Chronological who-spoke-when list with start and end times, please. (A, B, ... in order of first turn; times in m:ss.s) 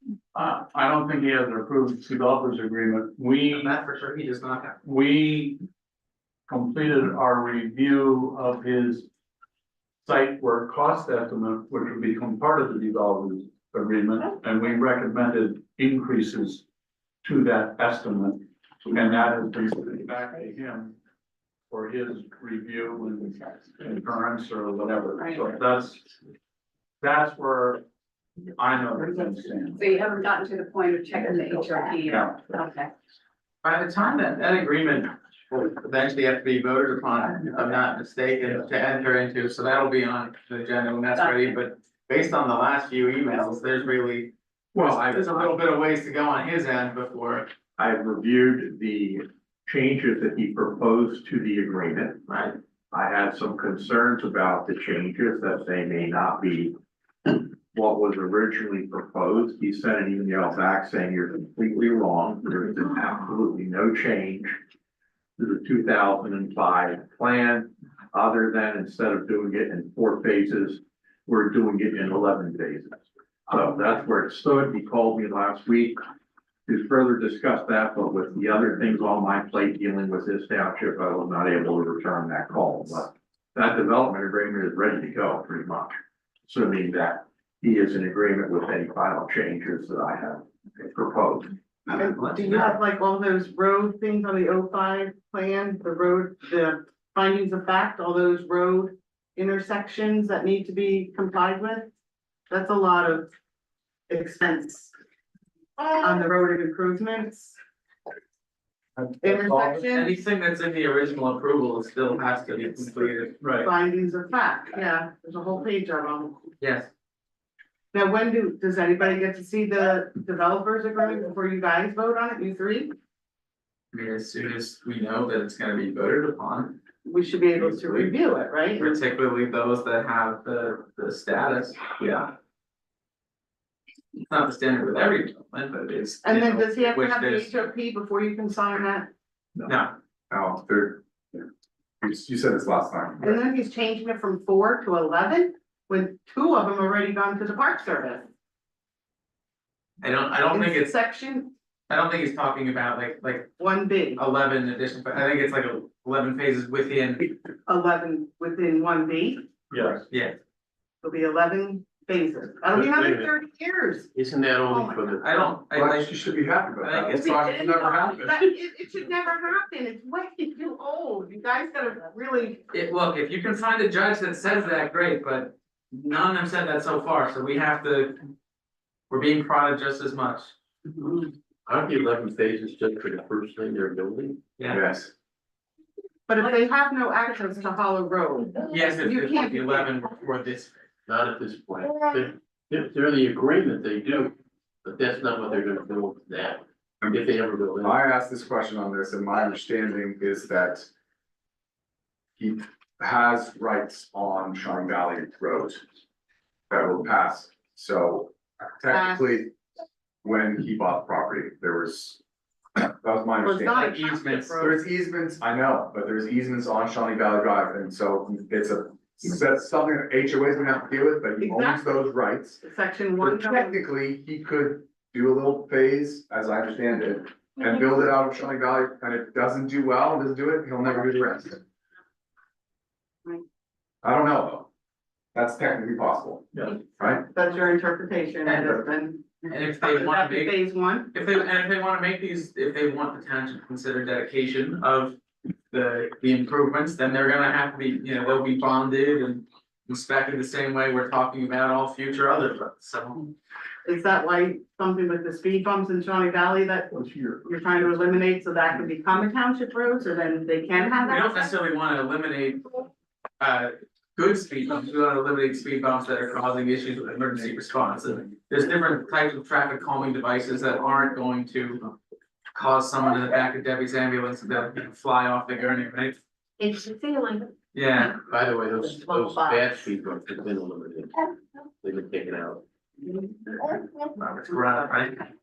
0:00.3-0:03.7 A
0:03.5-0:04.8 B
0:04.8-0:05.6 A
0:06.5-0:09.1 A
0:10.0-0:16.6 A
0:17.2-0:21.0 A
0:21.7-0:26.2 A
0:25.2-0:25.5 C
0:27.0-0:27.8 A
0:28.6-0:30.0 A
0:29.7-0:32.9 C
0:32.0-0:32.5 A
0:33.6-0:47.5 B
0:41.1-0:41.6 C
0:44.8-0:45.5 D
0:47.8-0:52.2 D
0:52.3-0:52.6 B
0:52.9-1:04.6 D
1:05.4-1:16.0 D
1:16.7-1:26.0 D
1:26.5-1:31.5 D
1:31.9-1:32.8 B
1:32.0-1:41.9 E
1:42.5-1:43.3 E
1:44.1-1:44.9 E
1:45.8-1:47.6 E
1:49.0-1:49.9 A
1:49.2-1:50.1 E
1:49.9-1:53.4 B
1:53.4-1:53.7 A
1:53.6-1:56.5 E
1:56.6-1:56.9 B
1:57.9-2:02.9 E
2:03.9-2:06.8 B
2:07.0-2:09.0 E
2:07.6-2:08.1 B
2:08.8-2:12.3 B
2:14.3-2:17.5 B
2:16.2-2:19.1 E
2:19.7-2:20.0 B
2:20.3-2:21.4 F
2:22.0-2:23.4 F
2:23.2-2:28.3 E
2:30.0-2:31.0 B
2:30.5-2:31.5 E
2:31.9-2:33.6 B
2:33.6-2:34.2 E
2:34.2-2:37.4 B
2:37.7-2:39.5 E
2:39.7-2:40.0 A
2:40.1-2:40.4 B
2:41.0-2:44.1 E
2:42.7-2:43.4 G
2:44.1-2:45.6 G
2:44.7-2:45.2 E
2:45.2-2:46.2 B
2:45.7-2:48.4 F
2:46.8-2:47.6 B
2:47.1-2:52.6 E
2:52.7-2:58.3 B
2:59.1-3:00.5 B
3:00.9-3:04.4 G
3:04.6-3:04.8 B
3:04.7-3:05.1 F
3:06.3-3:09.9 E
3:08.7-3:10.8 B
3:11.1-3:18.0 G
3:17.8-3:20.9 F
3:22.4-3:25.8 F
3:26.7-3:29.5 F
3:28.9-3:29.2 E
3:30.2-3:32.2 F
3:32.8-3:34.0 F
3:33.4-3:34.8 E
3:33.8-3:34.6 B
3:34.6-3:42.6 F
3:41.4-3:41.9 E
3:42.6-3:43.8 E
3:43.2-3:51.6 F
3:54.0-3:54.7 F
3:55.3-3:57.2 F
3:57.1-4:01.1 E
3:58.5-3:58.8 B
3:59.5-4:00.6 B
4:01.1-4:05.2 B
4:05.7-4:13.3 B
4:13.8-4:21.5 E
4:21.1-4:22.9 B
4:23.4-4:31.9 B
4:32.5-4:36.2 B
4:36.6-4:37.5 H
4:37.7-4:38.2 B
4:38.2-4:42.6 G
4:38.7-4:39.9 H
4:44.2-4:45.2 B